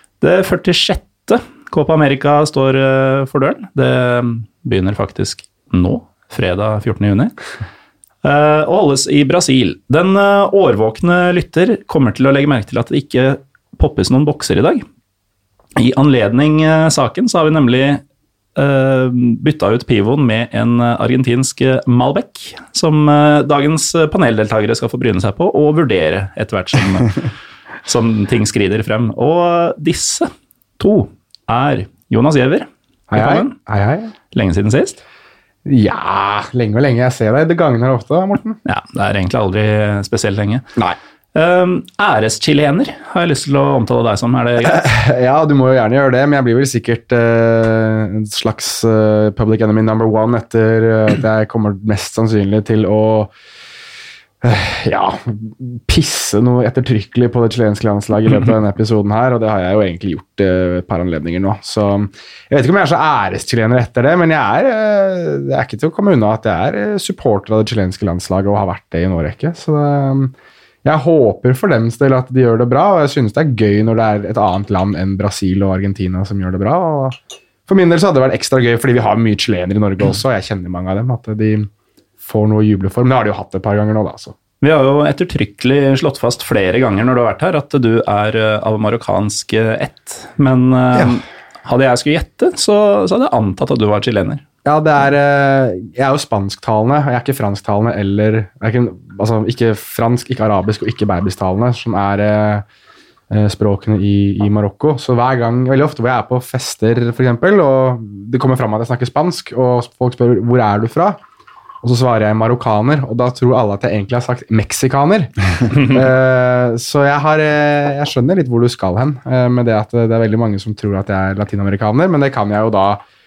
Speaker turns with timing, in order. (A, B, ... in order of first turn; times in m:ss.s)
0:00.2-0:07.3 A
0:08.2-0:14.8 A
0:15.8-0:18.0 A
0:18.6-0:27.3 A
0:27.8-0:33.5 A
0:33.1-0:34.1 B
0:34.3-0:35.0 A
0:35.6-0:38.6 B
0:38.6-0:40.7 A
0:41.4-0:44.8 A
0:44.6-0:53.3 B
0:54.4-1:17.2 B
1:17.7-1:21.7 B
1:22.2-1:24.4 B
1:24.6-1:34.4 A
1:34.6-1:42.6 B
1:43.3-1:51.2 B
1:51.8-2:03.0 B